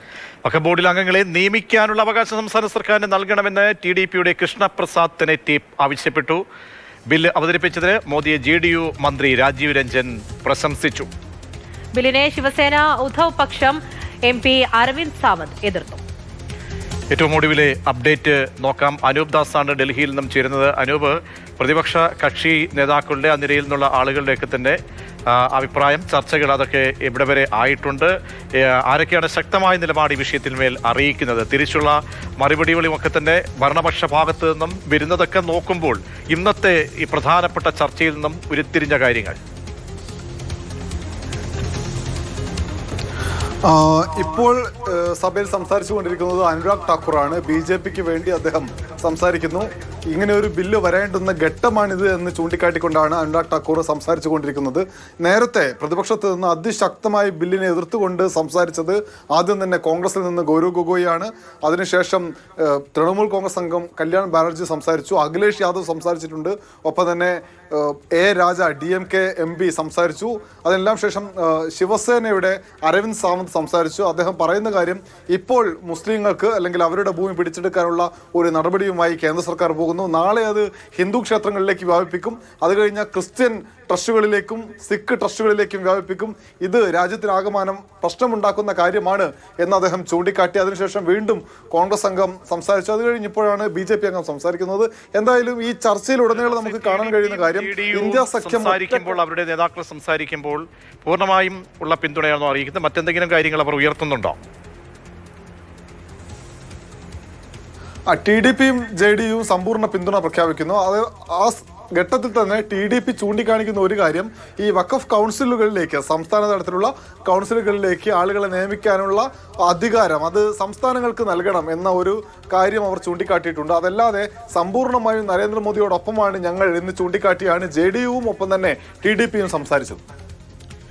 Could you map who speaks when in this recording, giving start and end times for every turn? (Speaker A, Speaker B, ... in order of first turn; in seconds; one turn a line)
Speaker A: 0.5-6.4
Speaker A: 7.1-11.1
Speaker B: 11.9-16.0
Speaker A: 17.1-39.4
Speaker C: 43.6-99.2
Speaker A: 96.3-104.4
Speaker C: 108.1-130.0